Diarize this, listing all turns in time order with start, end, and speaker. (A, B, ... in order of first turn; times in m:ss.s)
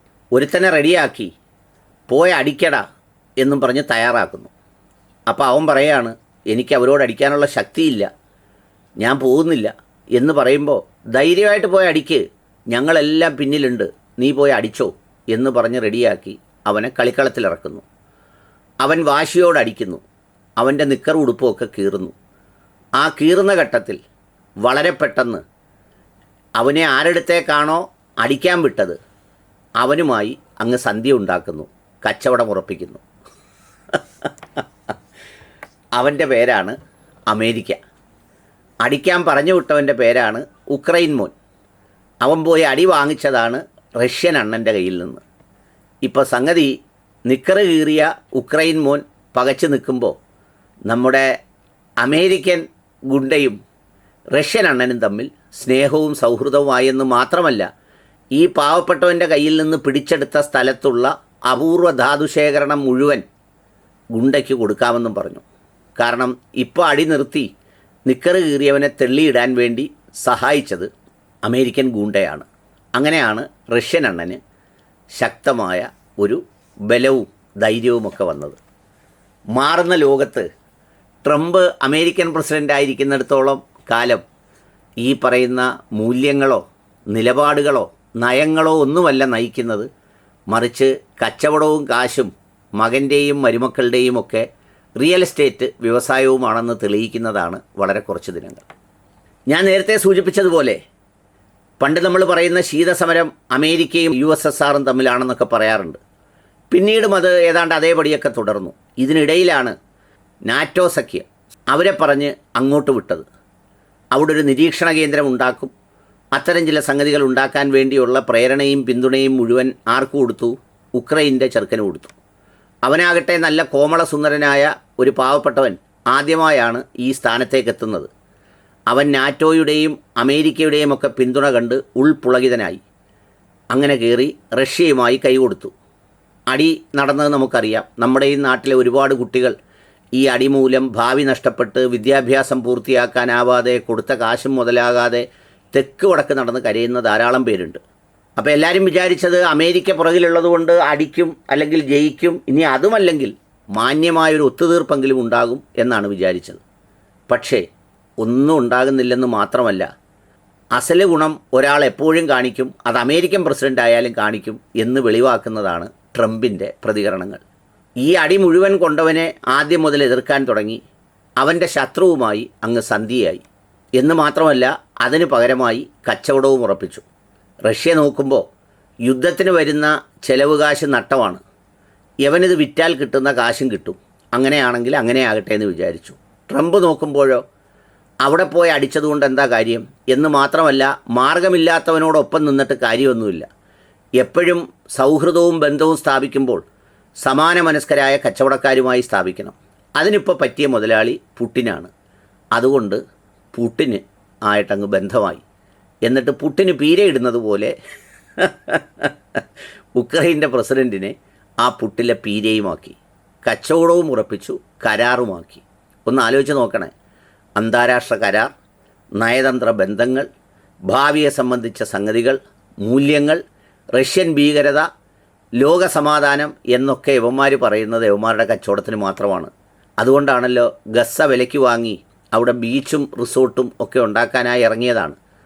0:00.3-0:01.3 A
0:02.1-0:02.8 A
0:03.4-0:04.5 A
0:05.3-0:08.1 A
0:09.0-0:17.8 A
0:18.8-0:20.0 A
0:20.6-0:22.1 A
0:23.0-0:24.0 A
0:24.6-0:25.4 A
0:26.6-0:29.0 A
0:29.8-0:33.0 A
0:36.0-0:36.8 A
0:37.3-0:37.8 A
0:38.8-0:41.3 A
0:42.2-0:45.2 A
0:46.0-0:46.7 A
0:47.3-0:50.1 A
0:50.9-0:51.3 A
0:52.0-0:53.6 A
0:54.3-0:57.6 A
0:58.3-1:03.2 A
1:04.1-1:05.4 A
1:06.0-1:07.5 A
1:08.1-1:10.9 A
1:11.4-1:14.4 A
1:15.2-1:18.6 A
1:19.5-1:20.5 A
1:21.2-1:24.2 A
1:25.0-1:29.9 A
1:30.5-1:34.4 A
1:35.0-1:38.7 A
1:39.5-1:40.8 A
1:41.8-1:46.0 A
1:46.7-1:49.7 A
1:50.5-1:53.2 A
1:54.1-1:55.7 A
1:56.3-2:02.2 A
2:02.8-2:08.1 A
2:08.9-2:12.8 A
2:13.7-2:15.7 A
2:16.5-2:19.5 A
2:20.1-2:27.8 A
2:28.4-2:36.6 A
2:37.3-2:37.6 A
2:38.2-2:39.9 A
2:40.8-2:47.4 A
2:48.0-2:50.8 A
2:51.4-2:53.4 A
2:54.0-2:57.0 A
2:57.6-2:58.4 A
2:59.0-3:01.4 A
3:02.2-3:07.4 A
3:08.2-3:13.4 A
3:14.2-3:16.6 A
3:17.2-3:21.9 A
3:22.5-3:23.0 A
3:23.5-3:25.4 A
3:26.0-3:27.7 A
3:28.4-3:29.4 A
3:30.0-3:36.9 A
3:37.6-3:38.5 A
3:39.2-3:40.3 A
3:40.9-3:43.4 A
3:43.9-3:44.8 A
3:45.6-3:55.2 A